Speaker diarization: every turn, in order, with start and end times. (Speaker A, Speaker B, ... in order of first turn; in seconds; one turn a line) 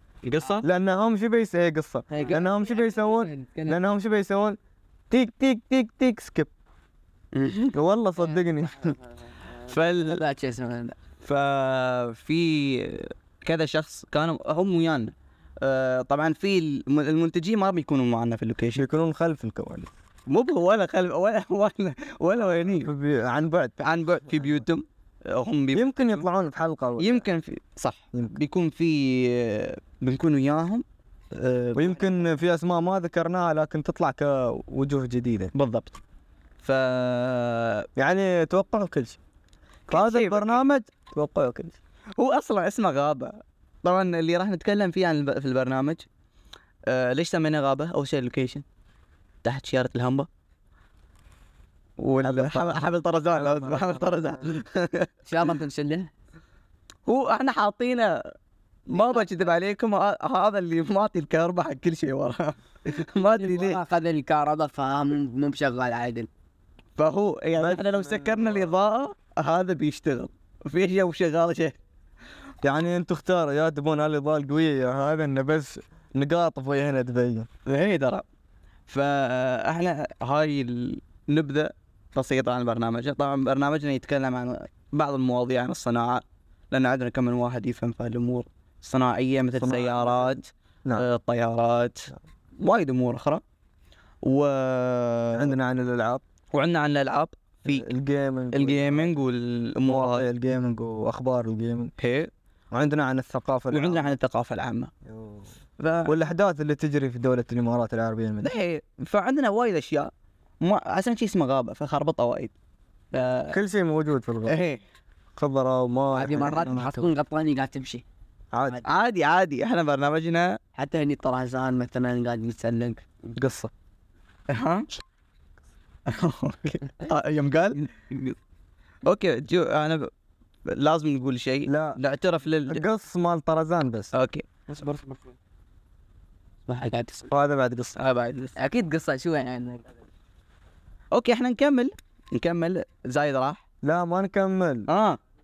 Speaker A: 0.2-0.7
Speaker B: 0.6-4.6
Speaker C: 2.1-3.8
Speaker B: 5.1-6.5
Speaker C: 7.3-7.7
Speaker B: 7.7-9.0
Speaker A: 9.7-10.2
Speaker C: 9.7-10.9
Speaker A: 11.2-18.9
Speaker B: 18.7-19.9
Speaker A: 20.3-22.9
Speaker B: 22.8-23.8
Speaker A: 23.8-26.2
Speaker B: 25.7-27.2
Speaker A: 27.0-32.0
Speaker B: 31.7-35.5
Speaker A: 35.5-36.0
Speaker A: 36.6-37.9
Speaker B: 38.0-39.2
Speaker A: 39.9-40.6
Speaker B: 39.9-41.8
Speaker A: 42.2-46.0
Speaker A: 46.9-48.6
Speaker A: 49.4-50.3
Speaker A: 52.0-55.5
Speaker B: 52.2-52.7
Speaker B: 53.4-54.1
Speaker C: 55.3-56.1
Speaker A: 57.0-58.2
Speaker A: 58.9-63.8
Speaker C: 63.3-66.3
Speaker A: 67.0-71.8
Speaker B: 67.6-68.7
Speaker B: 72.6-77.5
Speaker A: 77.7-78.2
Speaker A: 78.9-93.4
Speaker B: 89.6-91.0
Speaker A: 94.2-95.5
Speaker B: 95.3-96.2
Speaker A: 96.5-97.9
Speaker B: 97.6-99.1
Speaker A: 98.5-100.3
Speaker B: 99.8-101.9
Speaker A: 102.0-102.3
Speaker B: 102.7-104.1
Speaker A: 103.7-104.9
Speaker B: 105.0-105.5
Speaker A: 105.8-106.1
Speaker B: 106.0-108.5
Speaker A: 108.4-112.5
Speaker A: 113.1-113.6
Speaker B: 113.5-114.6
Speaker A: 114.5-114.8
Speaker B: 115.4-116.9
Speaker C: 116.1-118.0
Speaker B: 118.5-118.8
Speaker A: 118.8-120.6
Speaker C: 120.7-123.2
Speaker B: 123.3-123.7
Speaker A: 124.5-124.9
Speaker A: 126.1-128.3
Speaker A: 129.0-130.1
Speaker A: 130.7-132.8
Speaker B: 131.7-132.0
Speaker B: 132.7-134.1
Speaker A: 134.1-134.4
Speaker C: 134.7-135.3
Speaker C: 136.7-137.3
Speaker B: 137.3-138.0
Speaker C: 138.0-139.9
Speaker A: 141.1-143.6
Speaker B: 143.8-144.9
Speaker A: 144.9-145.2